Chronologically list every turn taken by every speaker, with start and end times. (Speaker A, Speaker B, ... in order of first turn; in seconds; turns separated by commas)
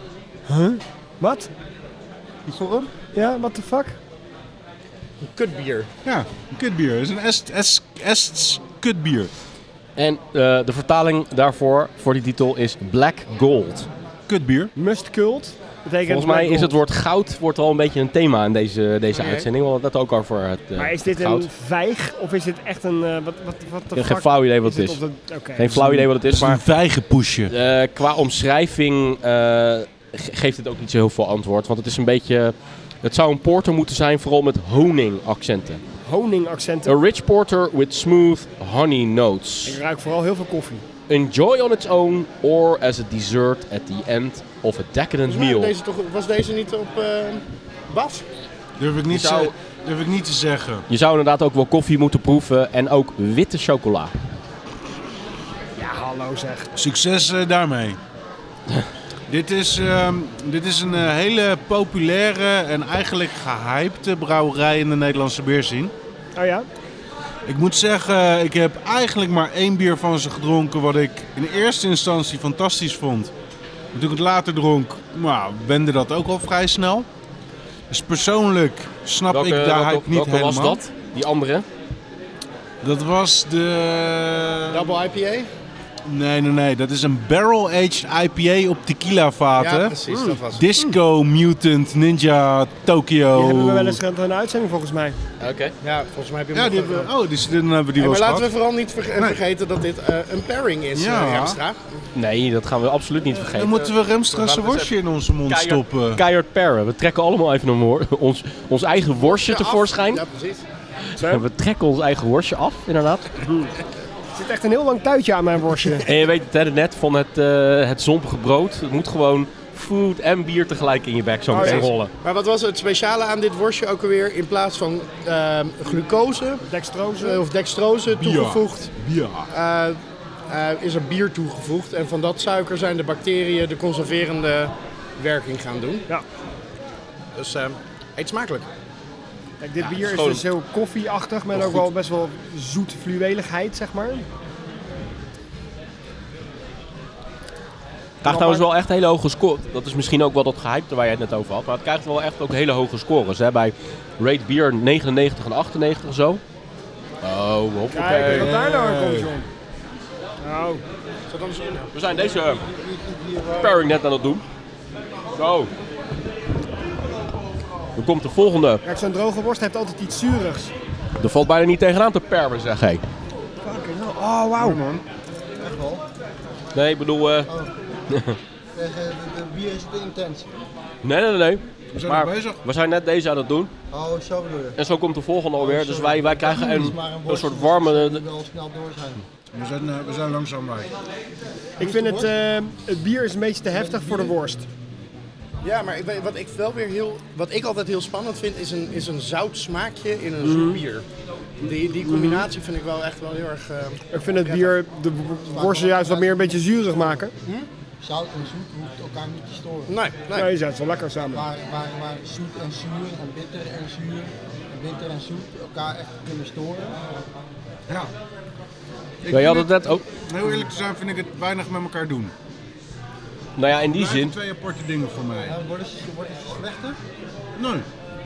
Speaker A: 0.5-1.5, Speaker B: 2.5-2.9, Speaker A: 3.1-4.0, Speaker B: 5.2-5.9, Speaker C: 6.0-9.3, Speaker D: 10.0-13.9, Speaker C: 14.3-14.7, Speaker A: 14.8-16.8, Speaker D: 16.0-21.5, Speaker B: 19.1-19.5, Speaker A: 20.8-25.7, Speaker D: 23.9-25.0, Speaker D: 25.6-26.6, Speaker C: 25.7-27.5, Speaker D: 27.5-35.8, Speaker A: 36.0-37.0, Speaker D: 36.8-39.8, Speaker A: 39.6-40.8, Speaker D: 41.1-45.7, Speaker B: 45.2-48.2, Speaker C: 48.8-50.8, Speaker D: 49.1-49.5, Speaker D: 50.9-54.1, Speaker A: 55.8-56.7, Speaker C: 56.8-58.0, Speaker C: 59.3-65.9, Speaker A: 66.3-66.7, Speaker C: 67.5-73.3, Speaker C: 73.9-77.1, Speaker C: 77.9-80.8, Speaker D: 79.3-81.6, Speaker C: 82.8-85.0, Speaker B: 84.7-85.5, Speaker C: 86.1-90.0, Speaker B: 89.6-90.6, Speaker C: 90.5-94.0, Speaker A: 93.3-95.2, Speaker D: 95.4-95.7, Speaker B: 95.8-97.1, Speaker C: 96.5-98.5, Speaker B: 98.0-102.0, Speaker C: 100.9-101.6, Speaker D: 102.1-104.9, Speaker C: 103.3-106.2, Speaker D: 105.4-110.2, Speaker B: 109.0-110.6, Speaker D: 111.1-113.3, Speaker A: 111.2-111.4, Speaker A: 113.4-113.7, Speaker A: 114.3-116.1, Speaker D: 116.0-122.1, Speaker A: 121.5-121.9, Speaker B: 121.5-126.6, Speaker A: 126.7-127.4, Speaker B: 127.2-128.9, Speaker C: 128.1-129.5, Speaker B: 129.5-136.1, Speaker B: 137.3-138.7, Speaker A: 139.6-144.2, Speaker D: 139.8-140.4, Speaker D: 141.5-141.8, Speaker D: 148.2-156.4, Speaker A: 148.2-148.7, Speaker D: 157.2-158.5, Speaker A: 157.9-159.5, Speaker C: 158.2-159.3, Speaker A: 160.4-160.8, Speaker B: 161.3-161.9, Speaker D: 161.9-162.7, Speaker E: 162.1-163.9, Speaker D: 163.6-164.4, Speaker D: 165.3-165.7, Speaker D: 168.0-168.8, Speaker A: 168.8-170.7, Speaker D: 171.2-173.0, Speaker A: 173.6-174.8, Speaker C: 174.6-175.0, Speaker E: 175.6-176.1, Speaker D: 176.7-177.5, Speaker E: 177.4-177.7, Speaker D: 178.1-178.4, Speaker E: 178.7-180.5, Speaker D: 181.0-183.7, Speaker C: 181.9-182.6, Speaker E: 183.9-184.8, Speaker D: 184.8-188.2, Speaker E: 185.6-189.2, Speaker C: 189.5-190.9, Speaker A: 191.8-194.6, Speaker E: 191.8-192.3, Speaker E: 193.7-194.4, Speaker B: 195.6-201.0, Speaker A: 200.4-200.8, Speaker B: 201.6-204.8, Speaker A: 202.0-202.4, Speaker A: 204.1-207.3, Speaker E: 205.5-207.2, Speaker E: 208.0-209.9, Speaker B: 209.9-210.5, Speaker A: 210.3-211.4, Speaker E: 211.2-217.0, Speaker C: 219.2-222.3, Speaker D: 219.3-220.0, Speaker D: 223.6-224.3, Speaker C: 223.9-225.6, Speaker E: 225.4-227.0, Speaker C: 227.6-227.8